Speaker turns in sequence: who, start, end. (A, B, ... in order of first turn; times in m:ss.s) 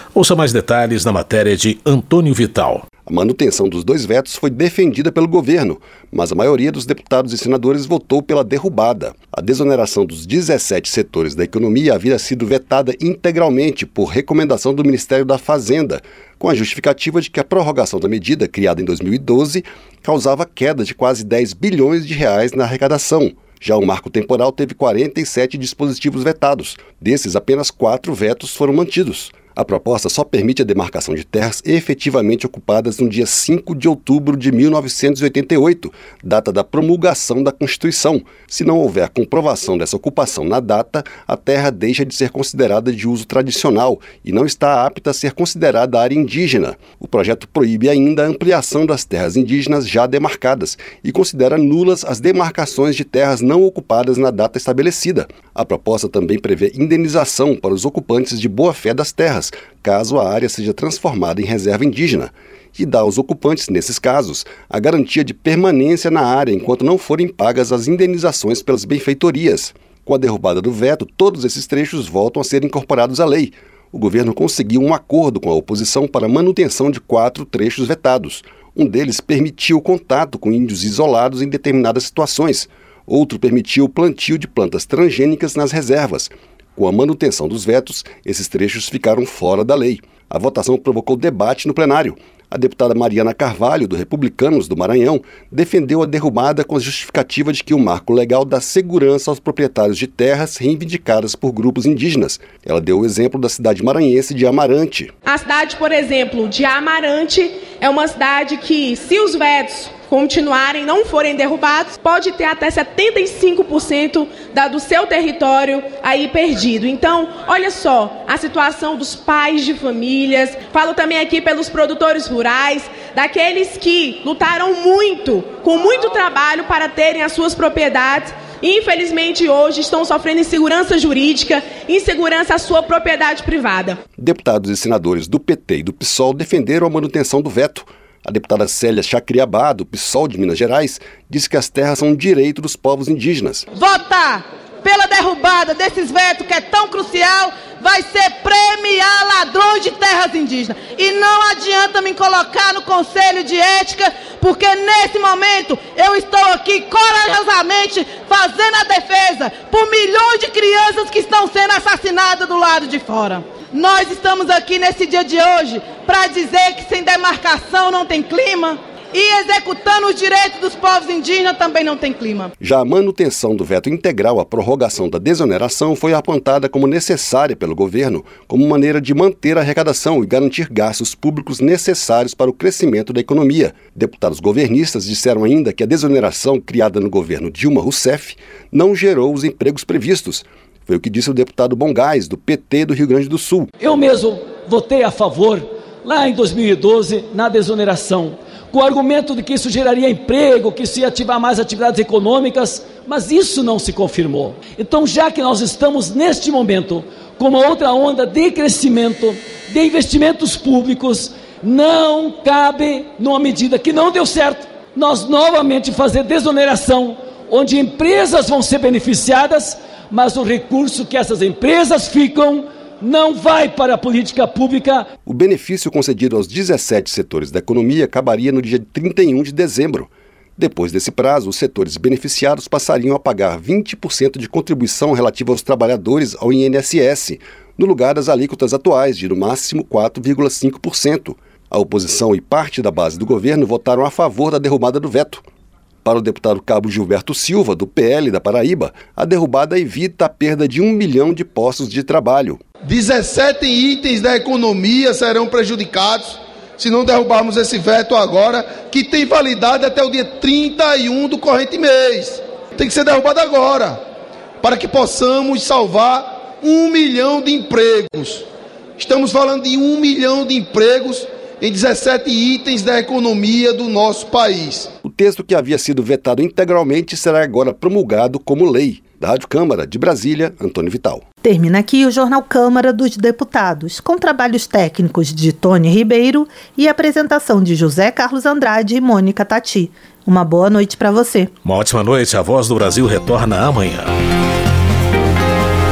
0:00.1-0:02.8 A
0:03.1-1:45.1 B
1:45.2-2:14.0 C
2:14.2-2:23.6 B
2:23.7-2:52.5 D
2:52.6-3:13.7 B
3:13.8-3:45.1 E
3:45.3-4:05.4 B
4:06.0-4:12.6 B
4:12.8-4:24.0 F
4:24.6-4:28.5 F
4:29.0-4:34.9 F
4:35.1-4:41.2 B
4:41.4-4:51.5 G
4:51.6-4:54.1 A